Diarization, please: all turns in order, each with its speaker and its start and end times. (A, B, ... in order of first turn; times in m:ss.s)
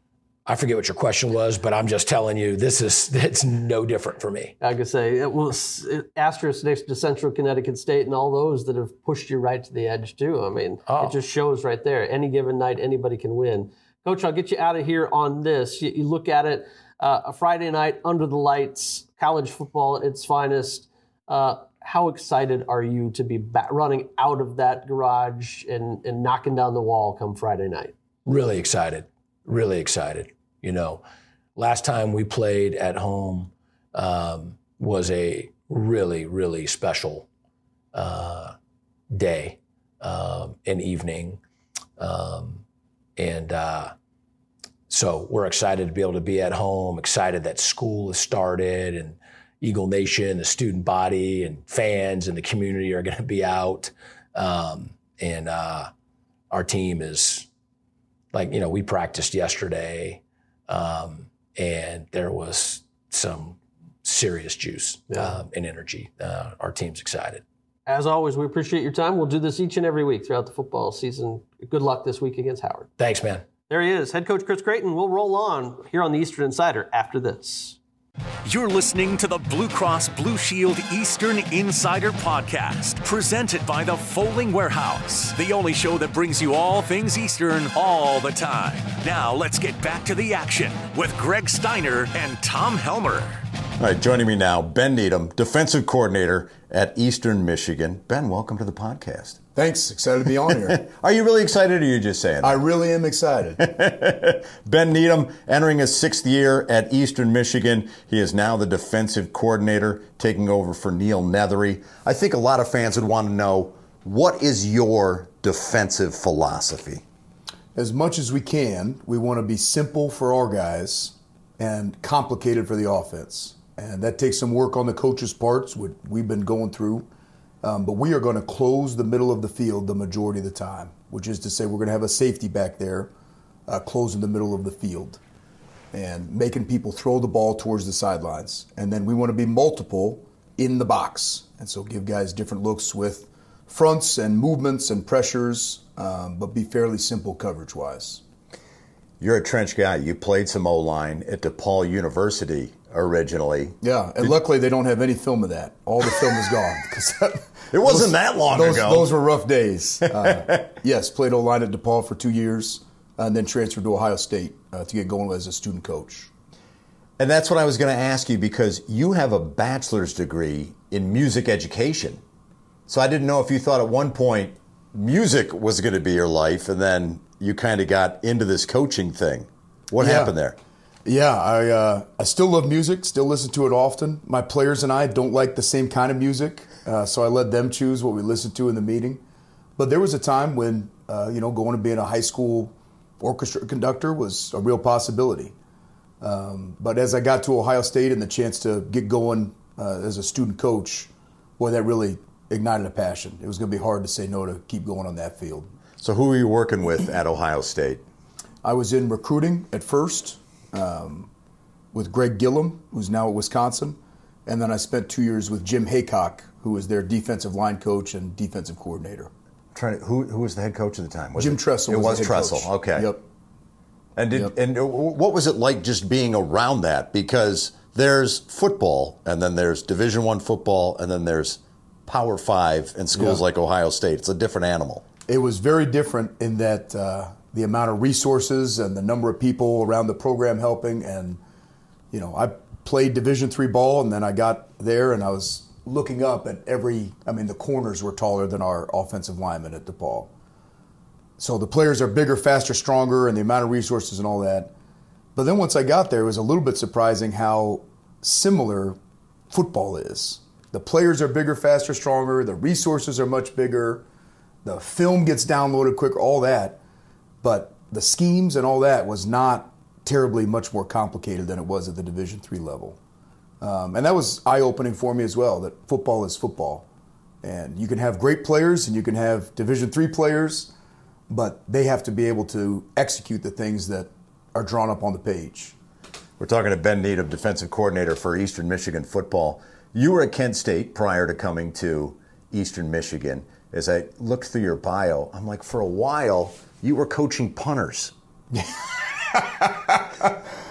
0:00.4-0:04.5 A
0:04.6-0:27.9 B
0:10.9-0:11.2 A
0:28.2-0:31.0 A
0:31.6-0:37.3 A
0:37.9-0:38.5 A
0:39.1-0:41.4 A
0:42.0-0:42.6 A
0:43.2-0:43.9 A
0:44.9-0:55.9 A
0:56.5-0:57.5 A
0:58.3-1:07.4 A
1:07.9-1:12.9 B
1:13.0-1:13.4 A
1:13.7-1:17.8 B
1:18.4-1:33.4 C
1:33.8-1:39.4 D
1:39.5-1:40.8 E
1:40.5-1:42.6 D
1:42.4-1:43.6 E
1:43.6-1:57.0 D
1:57.8-2:07.1 E
2:07.6-2:13.1 E
2:13.7-2:15.2 E
2:15.9-2:28.2 E
2:29.2-2:34.3 D
2:33.8-2:46.3 E
2:37.7-2:39.1 D
2:40.1-2:40.7 D
2:47.2-2:52.2 D
2:52.9-3:00.6 D
3:00.0-3:00.4 E
3:01.0-3:09.2 E
3:09.8-3:15.5 E
3:16.2-3:25.7 E
3:26.0-3:28.0 D
3:28.6-3:31.3 E
3:31.9-3:39.3 E
3:39.7-3:43.1 D
3:41.3-3:43.2 E
3:44.2-3:55.0 D
3:53.1-3:53.4 E
3:55.3-4:01.4 E
4:02.1-4:10.3 E
4:11.4-4:14.7 E
4:15.4-4:19.0 E
4:19.5-4:24.0 E
4:24.6-4:26.8 E
4:27.4-4:33.0 E
4:33.6-4:36.8 E
4:37.4-4:40.7 E
4:41.3-4:45.8 E
4:46.4-4:58.1 D
4:59.3-5:00.4 E